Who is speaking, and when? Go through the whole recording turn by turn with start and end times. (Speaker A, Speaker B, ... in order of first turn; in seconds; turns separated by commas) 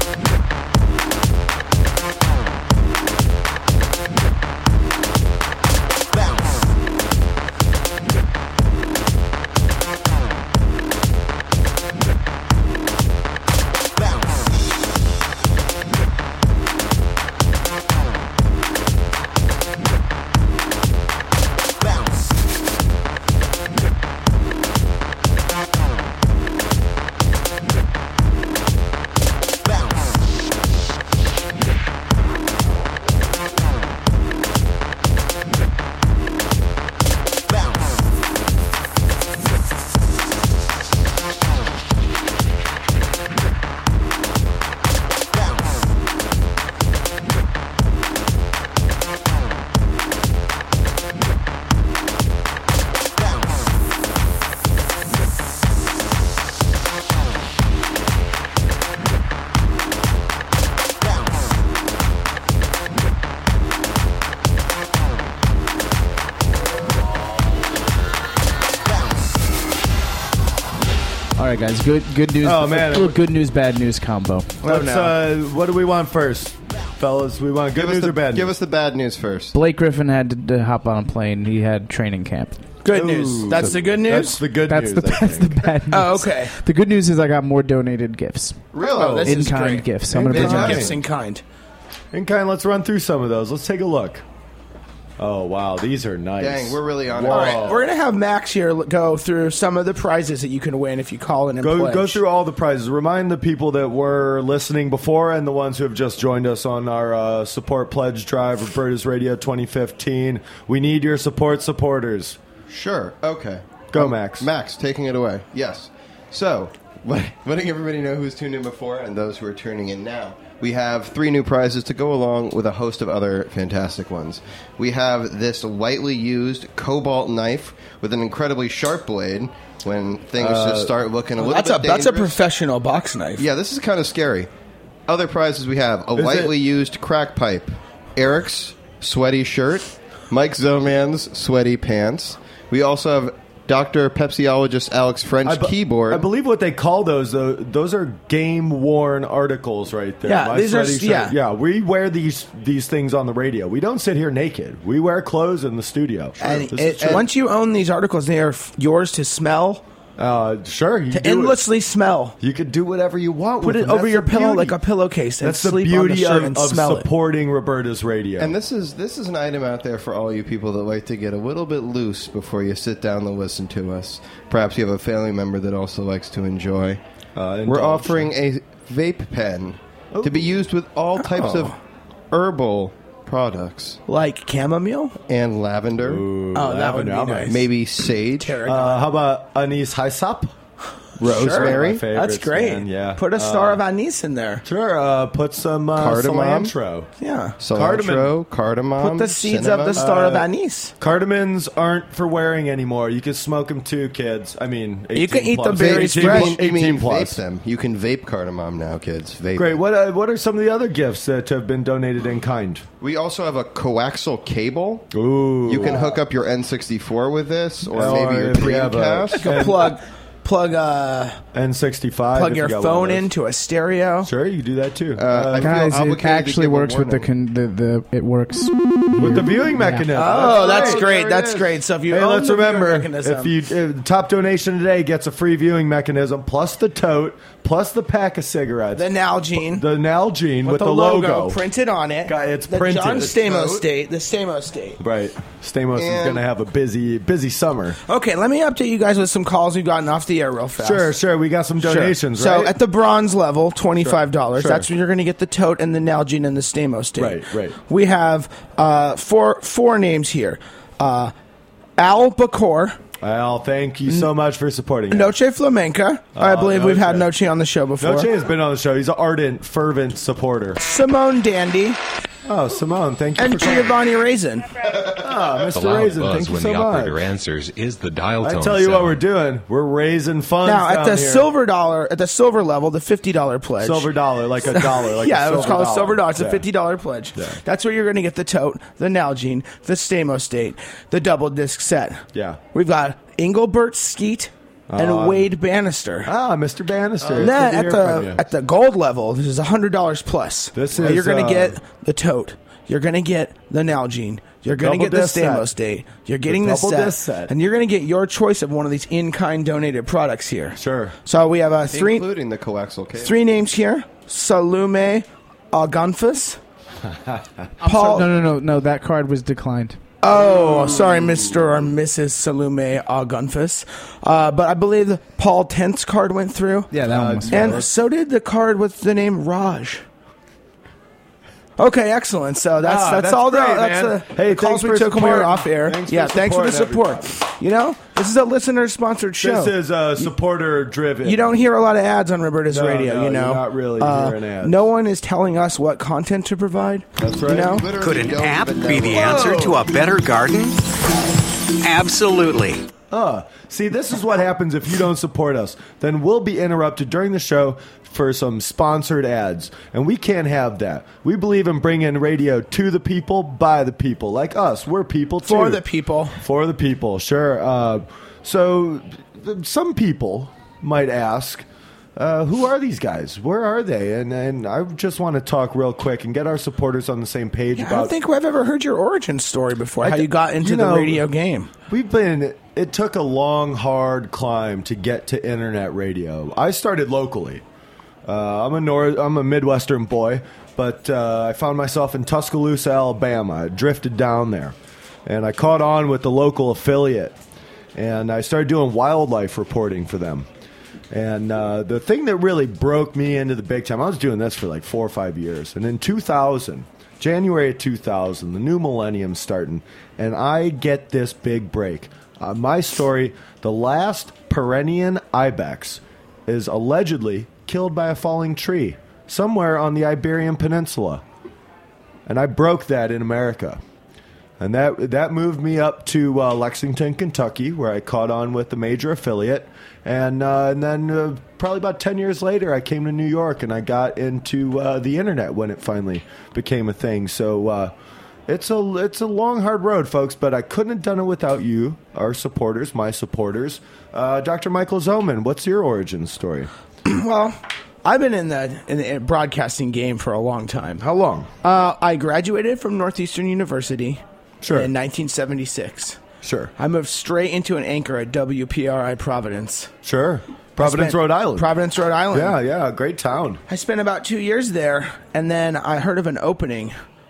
Speaker A: 71.4-74.6, Speaker B: 72.4-73.2, Speaker C: 74.6-75.1, Speaker B: 74.7-78.5, Speaker D: 77.8-79.6, Speaker A: 79.5-82.8, Speaker C: 82.8-84.5, Speaker B: 82.9-85.7, Speaker A: 84.5-88.7, Speaker C: 85.9-86.5, Speaker D: 88.7-89.4, Speaker C: 88.8-91.4, Speaker B: 88.9-89.3, Speaker A: 89.2-90.9, Speaker B: 90.1-91.0, Speaker D: 90.3-90.8, Speaker B: 92.1-94.2, Speaker B: 95.2-97.8, Speaker D: 96.4-97.9, Speaker C: 97.3-102.2, Speaker B: 101.6-112.4, Speaker D: 112.7-132.4, Speaker B: 113.9-114.5, Speaker B: 130.4-130.9, Speaker C: 131.4-133.5, Speaker D: 133.4-134.5, Speaker D: 135.1-146.2, Speaker B: 136.1-136.5, Speaker B: 145.4-157.3, Speaker C: 150.2-151.3, Speaker C: 156.4-159.8, Speaker B: 160.2-161.6, Speaker C: 161.1-162.4, Speaker B: 162.4-164.8, Speaker C: 163.6-167.1, Speaker B: 165.4-168.6, Speaker D: 168.4-177.0, Speaker B: 177.4-178.3, Speaker D: 177.7-181.8, Speaker B: 180.1-180.6, Speaker C: 181.3-181.7, Speaker D: 182.3-184.0, Speaker C: 184.1-185.2, Speaker D: 185.3-186.2, Speaker B: 186.0-187.6, Speaker C: 186.6-187.6, Speaker D: 187.5-188.6, Speaker C: 188.4-189.0, Speaker B: 188.7-190.5, Speaker B: 191.2-193.8, Speaker C: 191.2-194.6, Speaker D: 191.3-192.1, Speaker B: 194.6-197.1, Speaker D: 195.9-196.7, Speaker C: 197.2-197.6, Speaker D: 197.6-200.1, Speaker B: 197.7-198.3, Speaker C: 199.0-200.9, Speaker B: 199.9-200.5, Speaker B: 201.0-207.4, Speaker C: 205.1-206.6, Speaker D: 205.8-209.8, Speaker B: 209.6-212.8, Speaker D: 213.0-215.1, Speaker B: 215.1-216.2, Speaker D: 215.7-219.7, Speaker B: 217.9-219.9, Speaker C: 219.4-221.4, Speaker B: 221.5-223.3, Speaker C: 222.3-224.3, Speaker B: 224.2-225.8, Speaker D: 225.2-227.3, Speaker A: 225.6-230.4, Speaker B: 229.2-239.1, Speaker C: 230.1-233.5, Speaker D: 230.6-231.1, Speaker C: 239.0-239.8, Speaker B: 239.7-241.6, Speaker C: 240.6-245.0, Speaker B: 242.3-243.8, Speaker B: 245.0-248.0, Speaker D: 245.9-246.4, Speaker C: 248.1-251.1, Speaker B: 250.8-252.8, Speaker C: 251.8-261.3, Speaker B: 254.0-254.9, Speaker B: 257.2-257.8, Speaker C: 262.0-263.0, Speaker B: 263.2-265.3, Speaker C: 265.1-268.3, Speaker B: 266.4-267.3, Speaker B: 268.0-270.8, Speaker C: 270.8-272.0, Speaker B: 272.5-274.0, Speaker C: 273.4-274.8, Speaker B: 275.2-277.3, Speaker E: 275.7-279.2, Speaker B: 278.4-281.5, Speaker C: 280.6-284.1, Speaker B: 283.8-286.6, Speaker C: 284.7-296.3, Speaker B: 292.3-292.6, Speaker B: 294.9-295.5, Speaker B: 296.2-298.4, Speaker D: 297.2-297.6, Speaker C: 297.3-312.2, Speaker B: 300.8-301.8, Speaker B: 304.8-305.7, Speaker B: 306.5-307.5, Speaker B: 310.8-311.2, Speaker D: 311.9-313.4, Speaker C: 313.2-316.6, Speaker A: 317.8-320.1, Speaker C: 317.9-318.3, Speaker C: 320.2-326.9, Speaker B: 320.3-321.1, Speaker A: 326.9-327.8, Speaker B: 327.0-327.9, Speaker C: 327.5-330.0, Speaker C: 331.8-340.2, Speaker B: 332.8-337.3, Speaker B: 339.4-341.4, Speaker C: 341.2-347.9, Speaker B: 342.7-344.8, Speaker B: 347.2-347.8, Speaker D: 347.6-349.7, Speaker F: 348.0-350.8, Speaker B: 349.1-349.8, Speaker F: 351.8-352.9, Speaker B: 353.1-365.8, Speaker C: 365.4-366.4, Speaker B: 366.4-378.1, Speaker C: 377.8-381.7, Speaker B: 380.0-381.2, Speaker B: 381.9-387.6, Speaker B: 388.3-394.8, Speaker B: 395.3-397.4, Speaker B: 397.9-400.5, Speaker B: 401.1-421.2, Speaker B: 422.3-423.8, Speaker B: 424.6-437.9, Speaker B: 438.5-446.7, Speaker C: 447.1-456.2, Speaker B: 454.6-454.9, Speaker B: 456.4-456.7, Speaker C: 456.8-459.9, Speaker B: 460.0-461.7, Speaker C: 460.8-462.6, Speaker B: 462.3-463.6, Speaker C: 463.7-467.0